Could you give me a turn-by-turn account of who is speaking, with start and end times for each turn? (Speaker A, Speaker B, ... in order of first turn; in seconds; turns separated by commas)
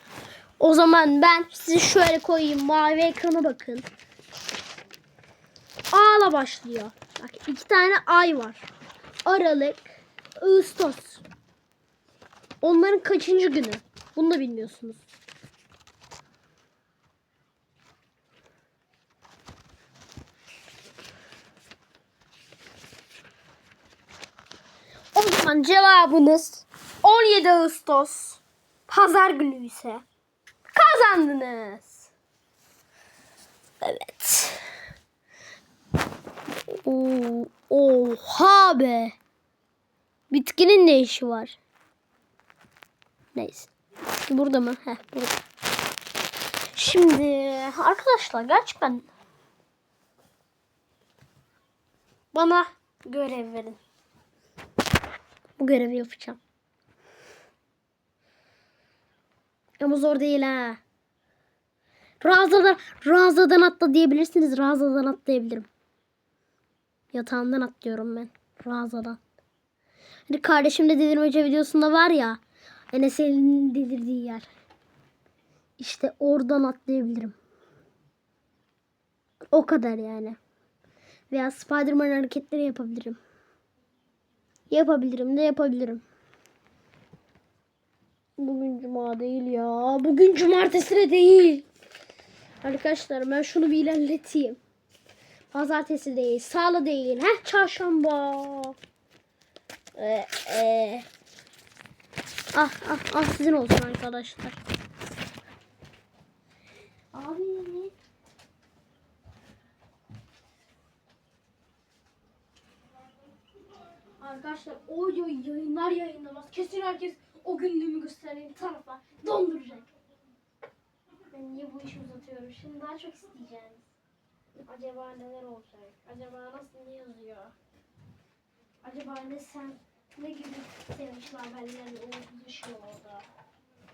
Speaker A: 0.6-3.9, Speaker A: 5.9-8.7, Speaker A: 9.2-11.2, Speaker A: 12.6-15.1, Speaker A: 25.1-30.1, Speaker A: 30.7-32.1, Speaker A: 33.8-34.6, Speaker A: 36.7-39.1, Speaker A: 40.3-41.6, Speaker A: 43.4-43.7, Speaker A: 44.3-45.4, Speaker A: 46.8-49.1, Speaker A: 52.3-53.8, Speaker A: 55.6-56.4, Speaker A: 59.8-60.8, Speaker A: 62.2-65.7, Speaker A: 67.1-69.2, Speaker A: 70.3-72.4, Speaker A: 72.9-74.5, Speaker A: 75.8-77.4, Speaker A: 79.5-80.4, Speaker A: 81.3-83.2, Speaker A: 84.7-86.0, Speaker A: 88.4-91.7, Speaker A: 92.6-94.6, Speaker A: 95.5-98.8, Speaker A: 100.0-101.1, Speaker A: 102.5-104.6, Speaker A: 107.1-107.9, Speaker A: 114.2-119.9, Speaker A: 121.3-123.9, Speaker A: 124.6-127.5, Speaker A: 128.8-133.3